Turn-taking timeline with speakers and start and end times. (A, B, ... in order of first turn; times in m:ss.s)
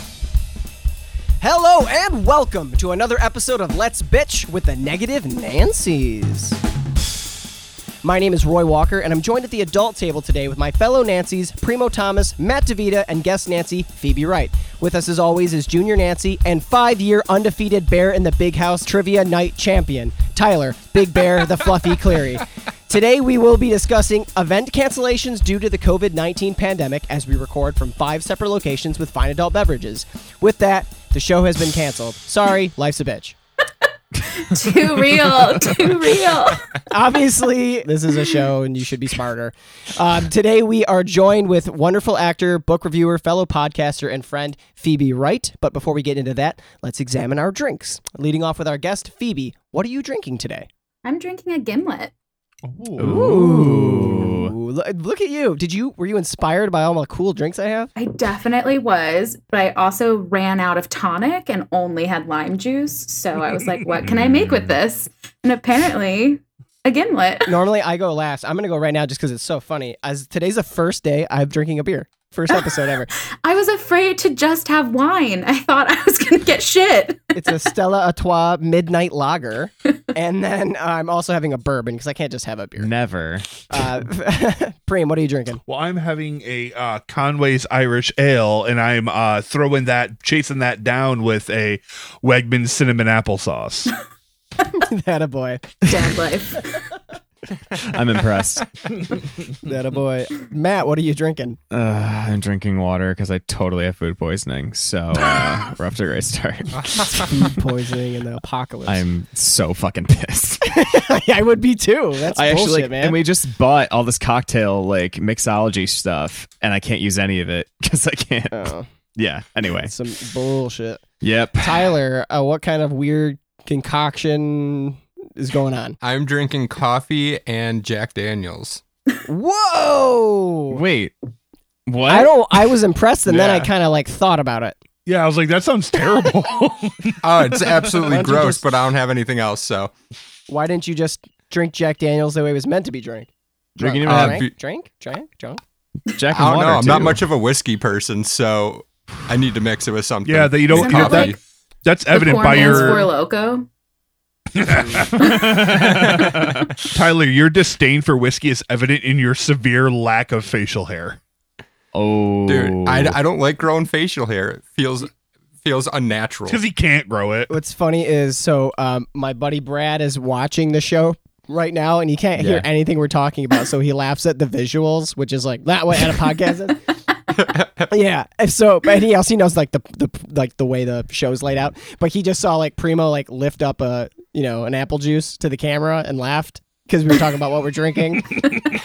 0:01.4-0:06.6 A
0:08.0-0:33.4 A
0:34.2-0:36.7 B
0:36.9-0:50.7 A
0:51.0-0:52.1 B
0:52.6-0:53.3 C
0:53.0-0:54.5 D
0:53.0-0:57.9 A
0:58.0-1:07.5 B
1:04.0-1:04.7 D
1:07.5-1:13.1 A
1:12.5-1:17.3 B
1:17.3-1:22.9 A
1:22.8-1:23.7 D
1:23.7-1:25.6 A
1:25.7-1:33.9 C
1:34.7-1:35.8 A
1:35.9-1:36.8 B
1:37.9-1:38.6 D
1:39.6-1:41.6 A
1:41.7-1:47.3 D
1:47.3-1:49.0 A
1:48.8-1:50.9 D
1:50.7-1:53.2 A
1:52.3-1:59.9 D
1:58.5-1:58.9 A
1:59.8-2:01.0 A
2:01.2-2:01.8 D
2:01.6-2:06.0 A
2:06.0-2:08.8 E
2:09.3-2:10.8 A
2:10.7-2:11.1 D
2:11.9-2:12.7 D
2:12.1-2:14.8 A
2:13.3-2:13.6 C
2:15.0-2:17.7 C
2:17.2-2:19.9 E
2:18.0-2:18.6 A
2:20.5-2:25.6 A
2:23.8-2:24.4 D
2:24.0-2:24.5 E
2:26.1-2:27.2 D
2:26.3-2:31.4 E
2:30.2-2:31.3 C
2:30.7-2:31.4 B
2:31.8-2:33.1 C
2:32.1-2:33.7 B
2:32.5-2:33.0 A
2:34.6-2:35.7 C
2:35.2-2:36.7 D
2:35.8-2:36.1 E
2:36.9-2:41.2 C
2:41.9-2:43.2 D
2:42.5-2:45.1 E
2:45.6-2:46.6 E
2:46.5-2:47.5 C
2:47.5-2:56.8 A
2:52.4-2:52.7 D
2:57.4-2:57.8 E
2:57.9-3:08.6 A